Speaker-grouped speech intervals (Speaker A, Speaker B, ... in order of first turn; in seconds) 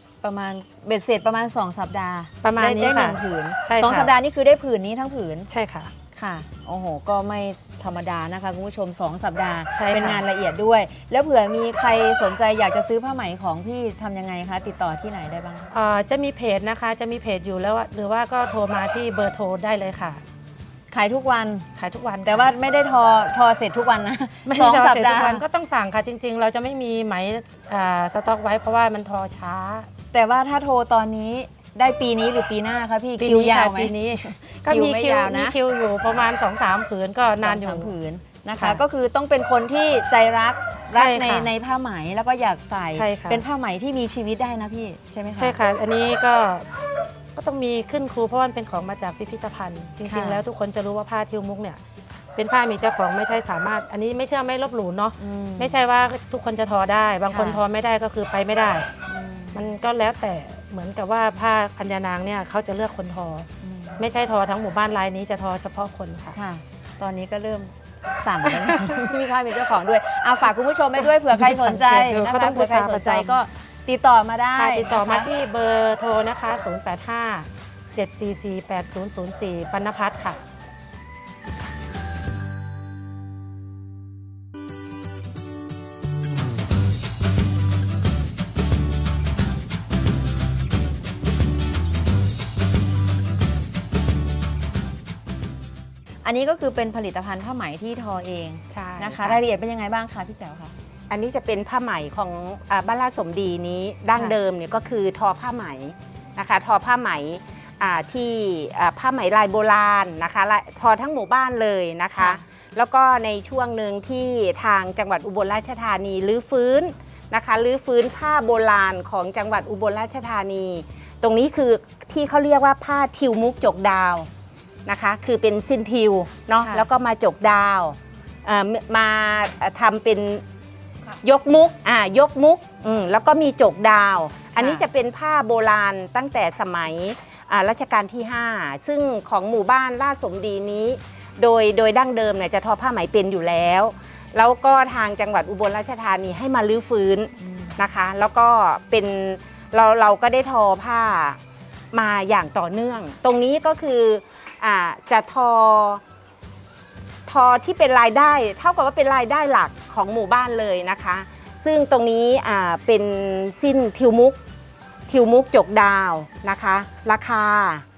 Speaker A: 0.2-5.5, 6.2-15.7, 20.9-21.7, 22.3-25.4, 30.1-35.5, 37.4-45.6, 50.1-50.4, 55.2-55.8, 57.3-57.6, 59.1-59.7, 63.6-64.0, 66.3-75.3, 96.2-100.7, 112.2-112.4, 126.6-126.9, 134.6-134.9, 147.4-147.8
Speaker B: 2.4-4.1, 5.5-5.9, 9.8-10.2, 15.7-20.2, 21.8-22.5, 24.5-29.9, 33.2-37.9, 40.9-41.5, 42.8-43.4, 45.4-46.7, 47.4-51.8, 52.4-58.9, 59.5-66.4, 68.4-69.2, 71.0-73.4, 74.5-80.4
Speaker C: 98.7-99.4, 101.1-124.3, 124.9-130.4, 131.2-151.4, 151.9-156.0, 157.3-164.4, 165.1-167.8